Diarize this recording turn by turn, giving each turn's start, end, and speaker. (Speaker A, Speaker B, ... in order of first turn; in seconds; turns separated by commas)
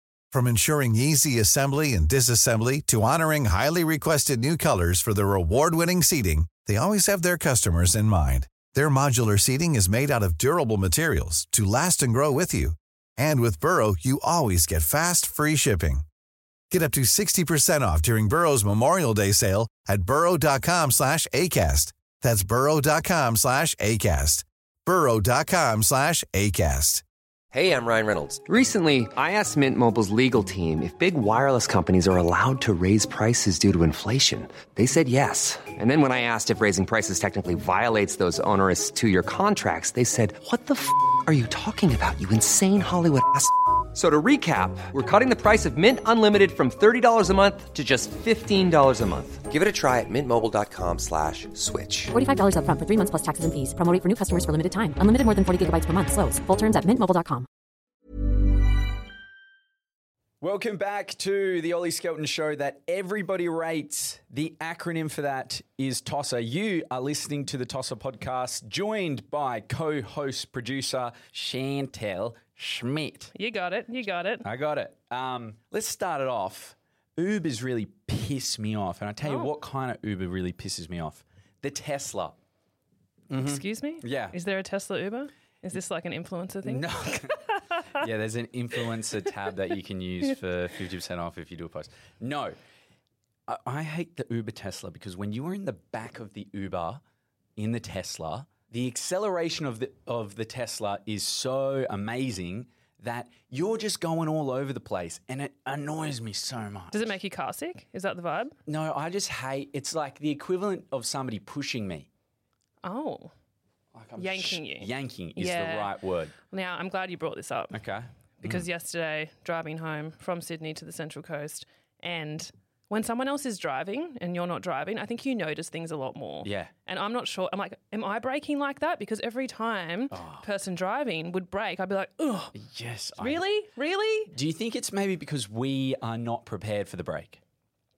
Speaker A: 0.3-16.0, Speaker A: 16.7-27.0, Speaker B: 27.5-52.1, Speaker C: 52.1-57.5, Speaker D: 60.4-73.3, Speaker E: 73.3-74.5, Speaker D: 74.4-82.4, Speaker E: 79.2-79.5, Speaker D: 83.3-84.4, Speaker E: 83.3-88.1, Speaker D: 86.6-87.4, Speaker D: 87.9-92.6, Speaker D: 93.5-97.0, Speaker D: 97.6-107.2, Speaker E: 106.9-108.5, Speaker D: 108.7-112.1, Speaker E: 112.8-113.3, Speaker D: 113.9-116.3, Speaker E: 114.2-117.8, Speaker D: 117.7-118.7, Speaker E: 118.4-132.6, Speaker D: 126.4-126.7, Speaker D: 130.1-130.5, Speaker D: 132.5-133.4, Speaker E: 133.2-134.3, Speaker D: 134.3-137.4